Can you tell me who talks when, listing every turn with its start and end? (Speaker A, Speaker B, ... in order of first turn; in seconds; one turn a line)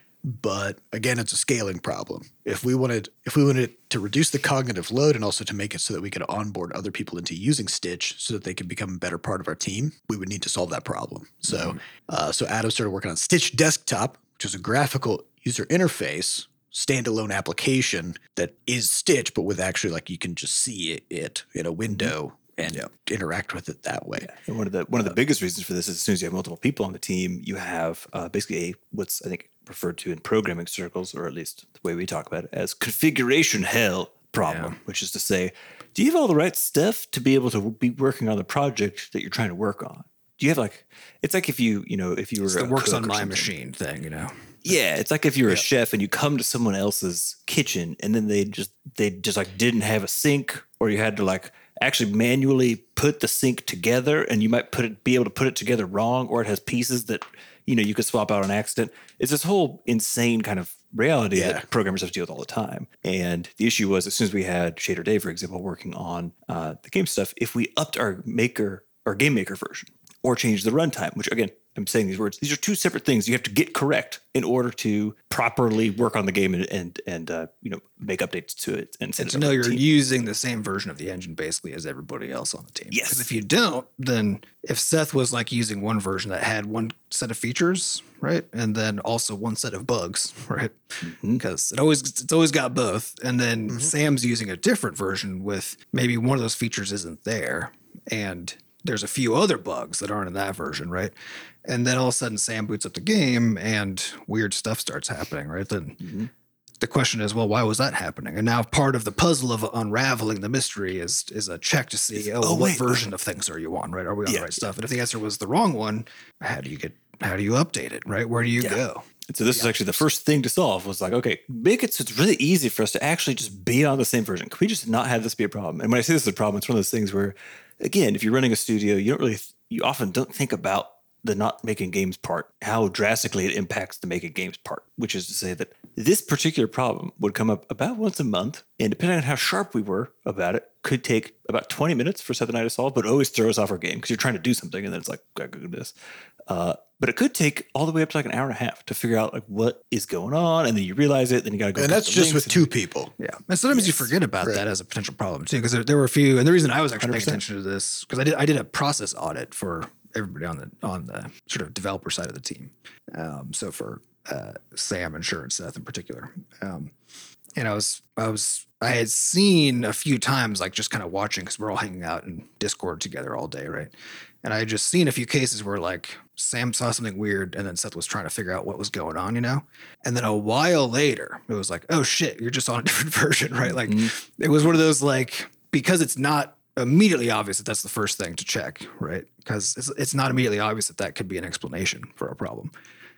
Speaker A: 0.2-24.3
Speaker B: 24.2-43.5
Speaker C: 34.4-34.8
Speaker C: 42.5-44.8
Speaker B: 44.6-79.8
Speaker A: 61.4-61.6
Speaker C: 79.2-101.1
Speaker B: 82.9-83.3
Speaker B: 91.0-91.4
Speaker C: 101.7-106.1
Speaker B: 106.0-106.3
Speaker C: 106.8-120.0
Speaker B: 112.3-113.0
Speaker B: 114.3-114.6
Speaker B: 118.6-145.9
Speaker B: 146.5-152.7
Speaker A: 151.8-153.1
Speaker C: 153.2-166.9
Speaker B: 157.0-157.4
Speaker C: 167.6-192.7
Speaker B: 183.8-184.1